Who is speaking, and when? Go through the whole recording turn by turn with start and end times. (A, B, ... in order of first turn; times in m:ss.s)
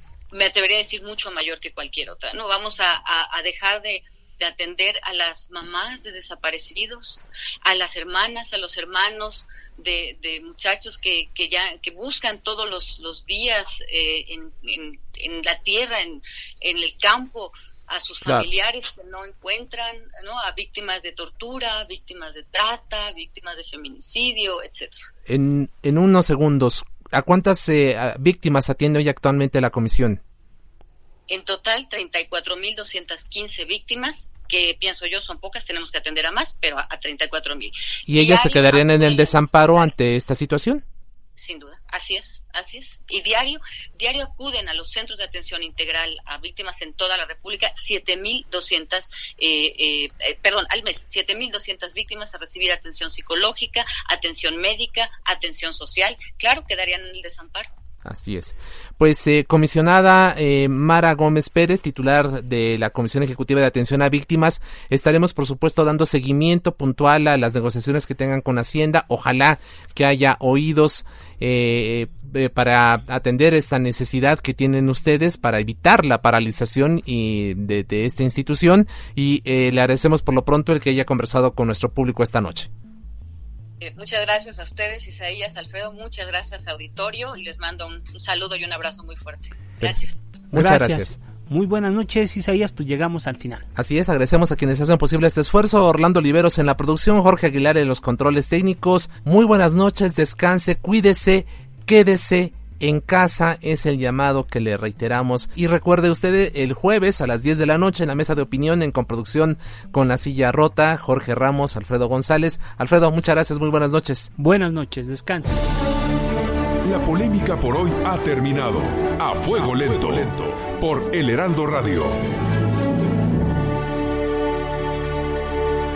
0:00.3-0:25.0 A
0:25.3-0:30.2 B
0:31.3-0:39.9 A
0:38.1-0:40.8 B
0:41.4-0:57.7 A
0:58.0-1:22.7 B
1:23.8-1:30.1 A
1:30.5-1:31.1 B
1:30.5-1:33.7 C
1:33.7-1:54.3 B
1:54.4-1:55.6 C
1:56.8-2:02.2 D